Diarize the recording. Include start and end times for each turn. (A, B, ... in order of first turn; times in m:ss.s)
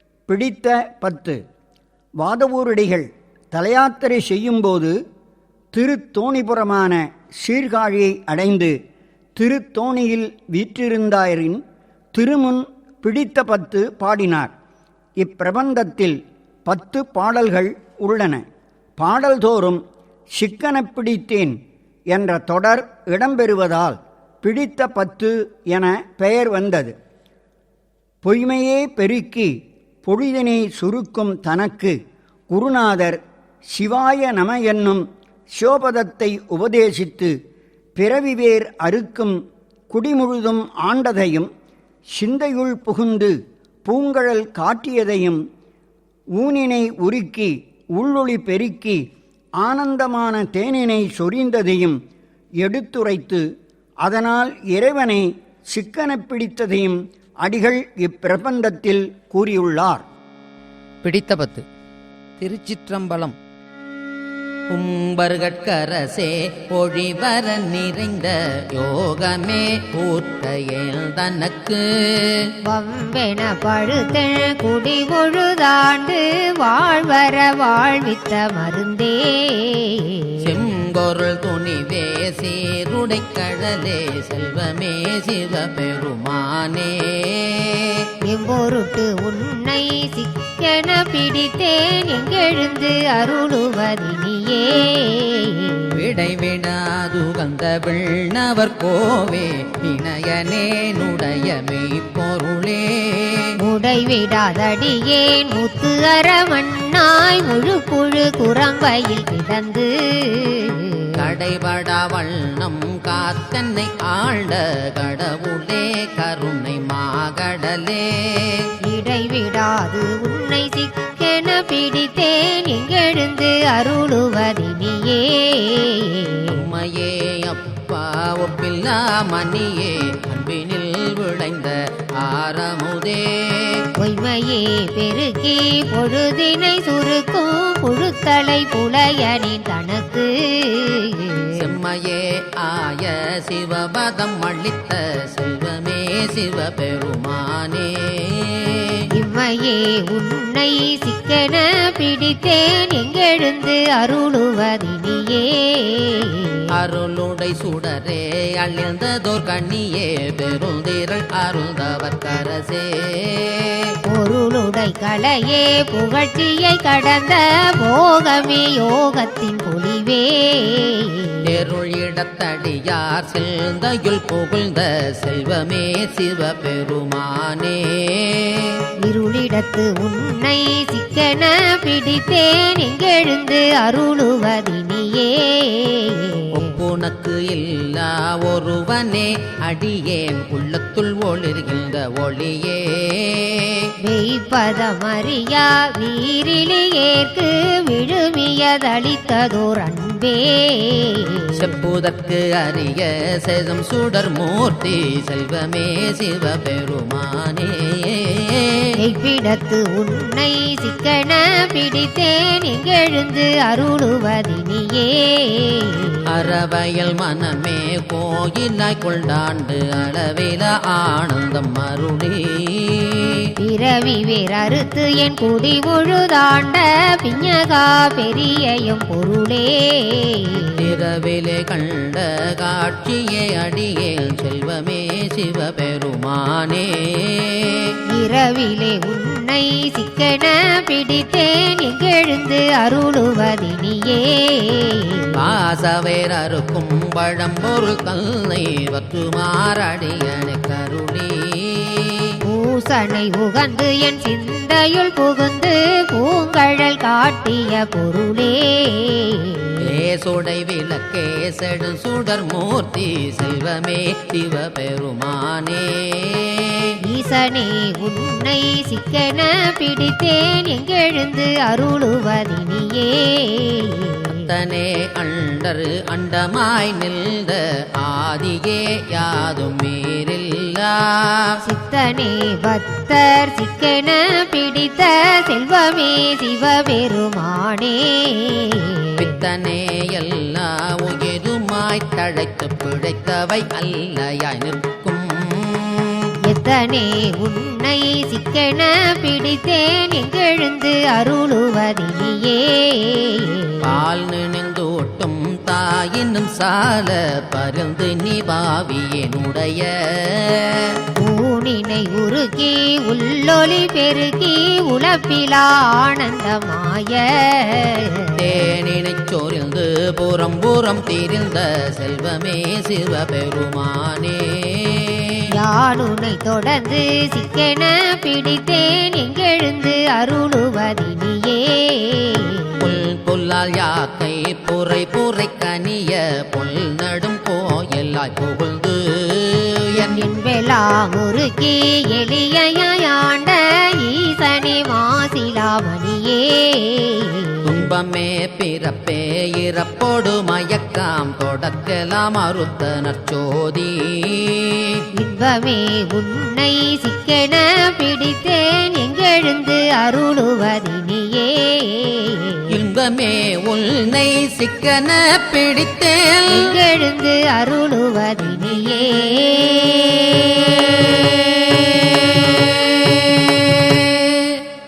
0:00.3-0:01.4 A
0:02.2-0:04.9 A
0:05.7-0:08.7 A
0:09.4-0:11.6 A
0:12.1-0:14.5 A
0:15.2-0:18.4 A
0:19.0-0:19.8 A
0:20.3-0:21.6 A
0:22.1-0:26.9 A
0:28.2-0:29.5 A
0:30.0-0:32.0 A
0:32.5-0:33.2 A
0:33.7-0:37.3 A
0:38.0-0:39.4 A
0:39.9-0:41.5 A
0:42.2-0:43.3 A
0:43.8-0:45.4 A
0:46.4-0:49.0 A
0:49.6-0:52.0 A
0:52.6-0:53.4 A
0:54.0-1:00.0 A
1:01.0-1:01.6 B
1:02.4-1:03.3 B
1:04.7-1:12.5 B
1:12.6-1:20.3 C
1:20.4-1:28.0 B
1:28.2-1:35.9 C
1:35.9-1:43.5 B
1:43.6-1:51.1 C
1:51.2-1:58.7 B
1:58.9-2:06.6 C
2:06.5-2:13.8 B
2:14.0-2:21.6 C
2:21.6-2:29.0 B
2:29.1-2:36.6 C
2:36.7-2:43.9 B
2:44.1-2:51.4 C
2:51.4-2:58.8 B
2:59.0-3:06.6 C
3:06.5-3:13.9 B
3:14.0-3:21.5 C
3:21.5-3:28.8 B
3:29.0-3:36.2 C
3:36.3-3:43.3 B
3:43.6-3:50.8 C
3:50.8-3:57.9 B
3:58.1-4:05.3 C
4:05.3-4:12.2 B
4:12.4-4:19.8 C
4:19.8-4:26.9 B
4:27.1-4:34.4 C
4:34.4-4:41.4 B
4:41.6-4:49.3 C
4:49.2-4:56.3 B
4:56.5-5:04.0 C
5:03.8-5:11.0 B
5:11.2-5:18.4 C
5:18.4-5:25.3 B
5:25.5-5:32.8 C
5:32.8-5:40.2 B
5:39.9-5:47.8 C
5:47.6-5:55.0 B
5:55.2-6:02.7 C
6:02.7-6:06.7 B
6:06.5-6:12.0 C
6:12.3-6:14.6 B